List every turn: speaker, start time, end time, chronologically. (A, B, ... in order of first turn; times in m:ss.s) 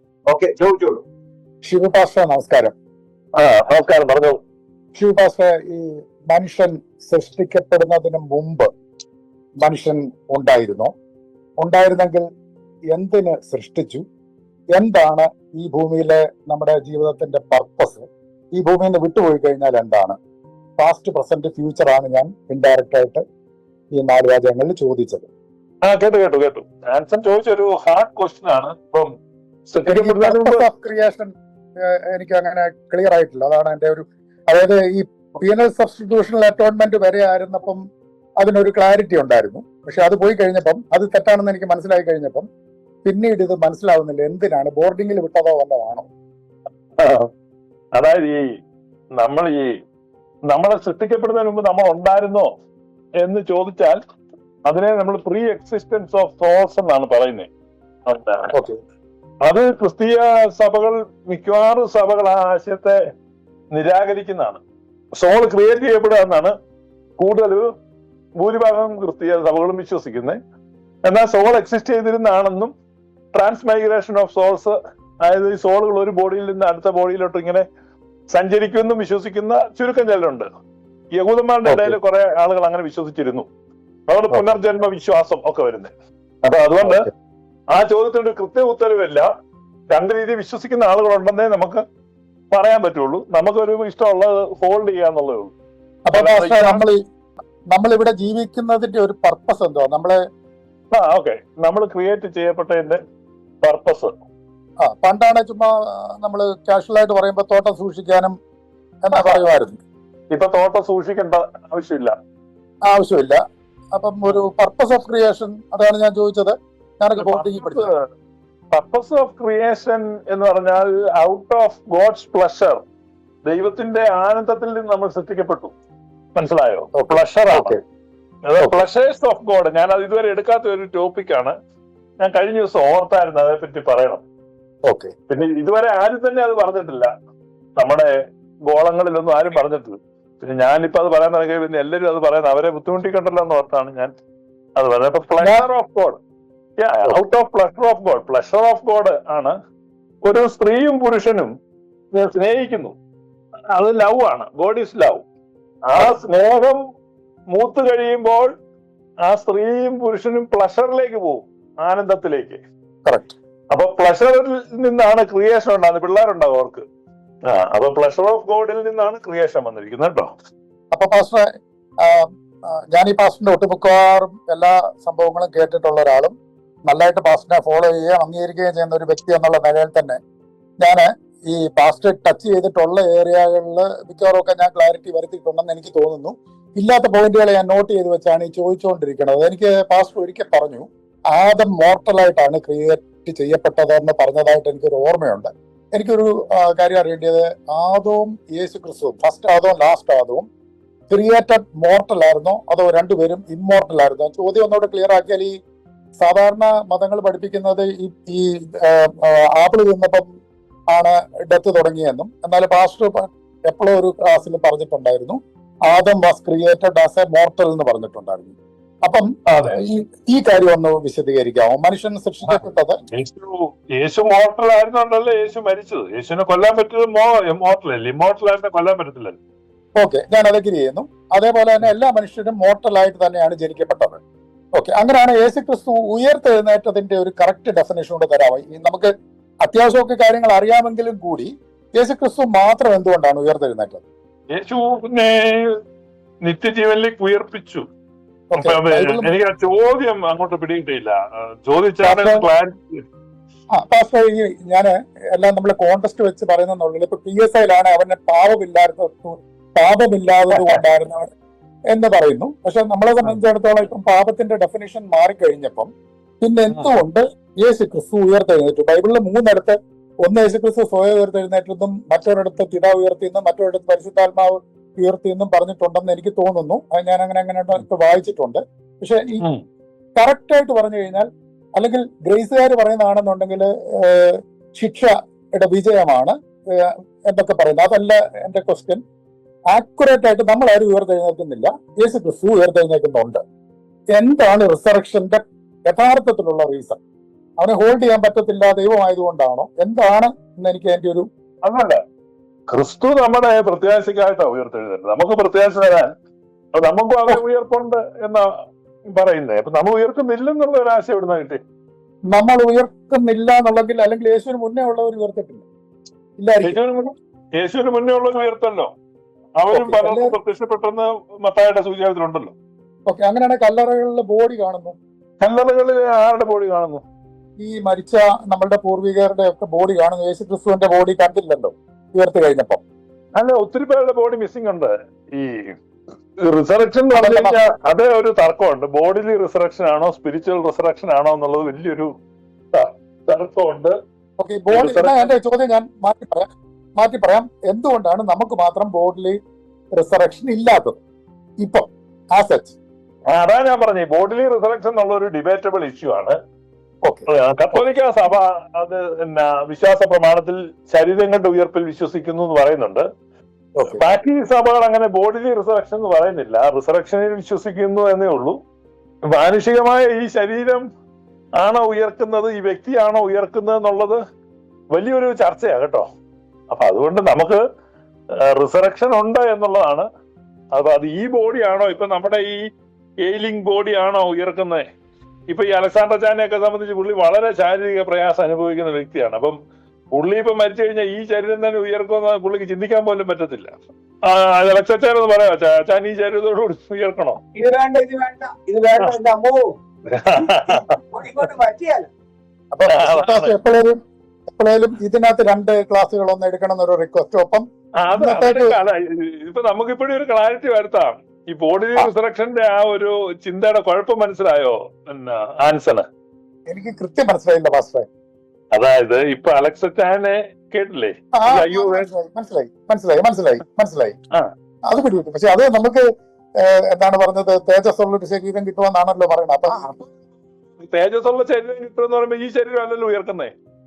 0:00.3-0:01.0 A
0:01.6-0:02.7 B
0:03.4-0:04.4 C
0:04.9-0:08.7 B
0:09.6-0:10.9 B
0:11.6-0:12.2 B
0:12.9-0:14.0 B
0:14.7-0:20.2 B
0:20.8-0:23.2 B
0:23.9-0:25.3 B
0:25.8-0:29.1 C
0:29.7-0:30.6 C
0:29.8-0:31.3 B
0:31.8-0:37.8 B
0:38.4-0:42.4 B
0:43.0-0:46.1 B
0:47.0-0:47.3 C
0:47.9-0:48.5 C
0:49.2-0:49.7 C
0:50.5-0:52.5 C
0:53.2-0:54.0 C
0:54.6-0:57.5 C
0:58.1-0:58.5 C
0:58.5-0:58.8 B
0:59.4-1:03.0 C
1:03.7-1:04.6 C
1:05.1-1:06.5 C
1:07.2-1:07.6 C
1:08.4-1:10.4 C
1:11.0-1:12.7 C
1:13.3-1:17.6 C
1:18.3-1:20.5 C
1:21.1-1:23.5 C
1:21.6-1:22.0 B
1:24.1-1:25.9 C
1:24.3-1:24.6 B
1:26.4-1:27.1 C
1:26.8-1:27.1 B
1:27.7-1:29.3 C
1:29.9-1:31.8 C
1:32.5-1:35.5 C
1:36.1-1:37.0 B
1:36.1-1:36.8 C
1:37.7-1:40.2 B
1:40.9-1:43.0 C
1:43.6-1:44.2 C
1:44.8-1:48.3 B
1:49.0-1:49.8 B
1:49.1-1:49.5 C
1:50.3-1:52.1 C
1:52.9-1:53.4 B
1:53.9-1:57.9 B
1:57.2-1:58.1 C
1:58.7-2:02.8 C
2:03.4-2:05.7 C
2:06.3-2:07.8 C
2:06.9-2:07.8 B
2:08.5-2:11.5 C
2:08.6-2:08.8 B
2:12.2-2:14.2 C
2:15.3-2:17.1 C
2:17.8-2:18.1 C
2:18.7-2:24.1 C
2:24.8-2:26.2 C
2:25.4-2:25.7 B
2:26.8-2:29.5 C
2:30.2-2:31.5 C
2:32.1-2:33.0 C
2:33.7-2:35.2 C
2:35.9-2:36.8 C
2:37.5-2:38.5 C
2:39.2-2:42.6 C
2:43.0-2:43.3 B
2:43.7-2:46.8 C
2:47.5-2:50.3 C
2:50.9-2:51.4 B
2:52.8-2:56.3 B
2:56.9-3:00.2 B
3:00.8-3:20.5 B
3:21.1-3:25.5 B
3:26.2-3:30.2 B
3:30.9-3:43.0 B
3:39.4-3:39.8 C
3:42.4-3:49.4 C
3:49.9-3:54.2 B
3:54.7-3:59.1 B
3:59.6-4:04.0 B
4:04.5-4:05.8 C
4:06.4-4:07.8 C
4:08.5-4:09.3 B
4:08.5-4:13.0 C
4:12.0-4:12.5 B
4:13.7-4:21.3 B
4:20.5-4:20.8 C
4:21.9-4:25.9 B
4:26.4-4:39.4 B
4:26.7-4:27.0 C
4:40.2-4:49.0 B
4:49.7-4:53.4 B
4:54.2-4:57.0 B
4:57.6-5:01.2 B
5:01.6-5:02.0 C
5:02.7-5:06.1 C
5:06.8-5:08.4 C
5:09.1-5:11.6 C
5:12.3-5:15.6 B
5:16.4-5:16.8 B
5:16.6-5:18.9 C
5:19.6-5:22.5 C
5:19.7-5:20.4 B
5:23.0-5:25.0 B
5:25.4-5:27.0 C
5:27.6-5:32.8 B
5:33.4-5:35.8 C
5:36.4-5:42.1 C
5:37.1-5:37.6 B
5:42.7-5:44.0 C
5:44.4-5:49.4 B
5:44.7-5:45.3 C
5:50.0-5:51.0 B
5:51.6-5:52.8 B
5:53.3-5:56.4 C
5:57.0-5:57.8 B
5:57.3-6:03.0 C
6:03.8-6:04.1 B
6:03.8-6:08.6 C
6:09.3-6:10.8 C
6:11.6-6:14.2 C
6:14.9-6:16.0 C
6:16.7-6:17.6 C
6:18.4-6:20.0 C
6:20.7-6:22.6 C
6:23.2-6:24.8 C
6:25.5-6:29.6 C
6:30.1-6:33.7 C
6:34.2-6:37.4 C
6:37.6-6:39.8 A
6:40.1-6:41.0 C
6:40.4-6:42.1 A
6:42.7-6:44.0 B
6:42.9-6:43.5 C
6:44.5-6:48.8 B
6:48.0-6:56.0 C
6:56.7-6:58.0 B
6:58.7-7:02.1 C
7:01.3-7:04.1 B
7:04.9-7:06.0 B
7:06.6-7:09.9 B
7:10.8-7:13.5 C